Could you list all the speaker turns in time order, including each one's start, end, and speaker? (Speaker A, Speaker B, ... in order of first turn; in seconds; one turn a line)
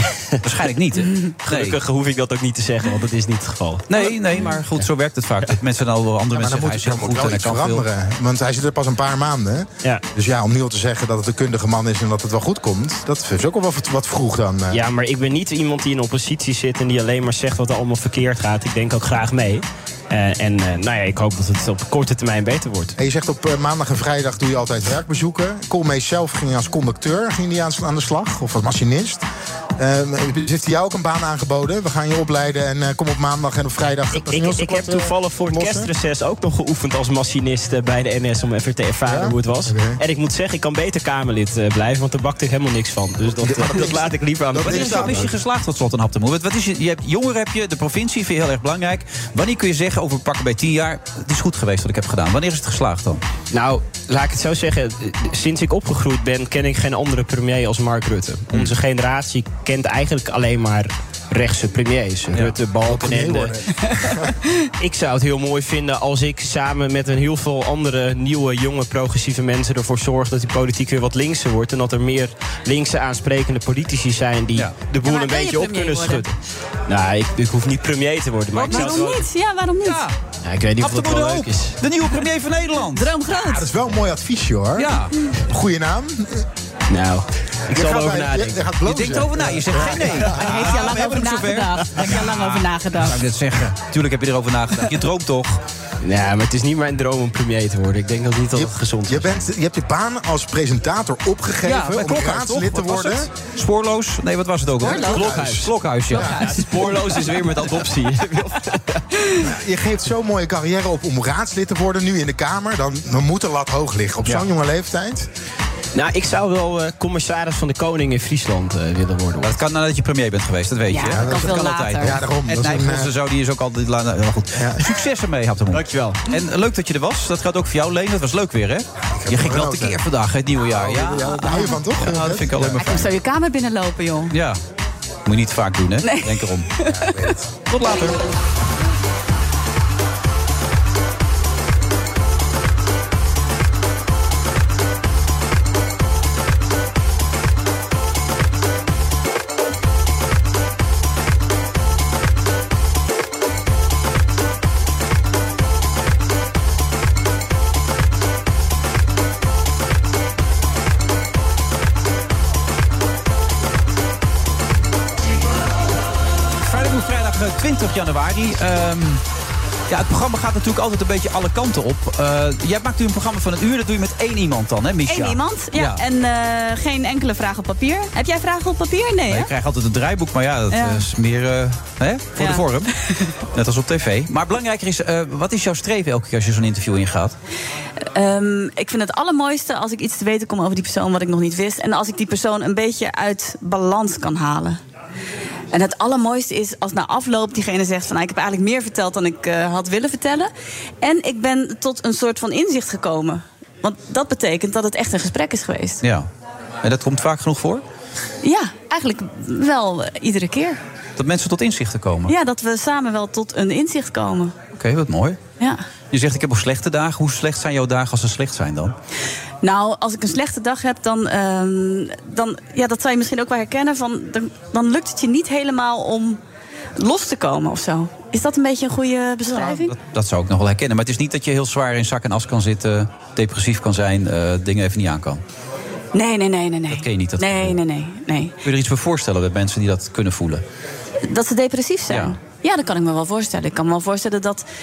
Speaker A: 0.4-1.8
Speaker B: 1.5-4.1
Speaker A: 3.9-7.9
Speaker C: 6.3-14.8
Speaker B: 14.7-22.9
Speaker C: 23.0-29.3
Speaker C: 29.8-35.9
Speaker B: 34.1-45.3
Speaker C: 39.0-40.0
Speaker C: 43.4-45.3
Speaker A: 43.6-43.9
Speaker A: 44.5-53.2
Speaker B: 53.5-63.5
Speaker A: 58.5-58.8
Speaker A: 62.3-62.6
Speaker C: 62.8-64.3
Speaker B: 64.8-76.3
Speaker D: 75.0-76.2
Speaker B: 76.9-79.1
Speaker A: 78.5-79.2
Speaker D: 78.7-80.0
Speaker A: 79.8-80.1
Speaker B: 80.4-81.8
Speaker A: 80.8-83.1
Speaker D: 83.0-83.7
Speaker C: 83.5-86.5
Speaker A: 84.8-85.1
Speaker B: 86.9-88.7
Speaker C: 87.7-90.7
Speaker A: 88.8-95.6
Speaker D: 89.8-93.2
Speaker B: 96.0-99.5
Speaker C: 98.5-103.3
Speaker A: 101.6-107.9
Speaker C: 104.8-106.4
Speaker D: 104.8-105.4
Speaker B: 105.0-105.6
Speaker D: 106.2-106.6
Speaker B: 106.3-109.0
Speaker C: 109.4-115.3
Speaker A: 114.2-114.5
Speaker B: 116.0-119.5
Speaker A: 119.4-133.1
Speaker D: 120.9-122.3
Speaker C: 121.0-123.1
Speaker C: 124.5-124.8
Speaker B: 125.8-126.2
Speaker C: 129.2-130.0
Speaker C: 130.7-132.7
Speaker D: 131.2-131.8
Speaker D: 132.7-134.3
Speaker A: 134.3-134.6
Speaker A: 135.3-136.7
Speaker D: 136.0-137.2
Speaker C: 136.9-137.5
Speaker A: 137.7-138.2
Speaker A: 166.6-169.2
Speaker A: 169.9-176.0
Speaker D: 175.1-179.5
Speaker A: 179.3-182.9
Speaker D: 180.7-181.0
Speaker D: 182.4-182.6
Speaker A: 183.5-187.4
Speaker D: 188.2-194.8
Speaker D: 195.7-206.0
Speaker A: 206.0-206.3
Speaker A: 206.8-207.8
Speaker D: 208.4-210.8
Speaker A: 211.2-212.3
Speaker D: 212.3-214.5
Speaker A: 214.8-215.4
Speaker A: 216.1-218.9
Speaker D: 219.6-226.4
Speaker D: 227.0-229.9
Speaker A: 229.5-235.4
Speaker D: 236.1-238.5
Speaker A: 236.9-237.8
Speaker A: 238.6-240.6
Speaker D: 241.2-244.7
Speaker A: 242.1-242.4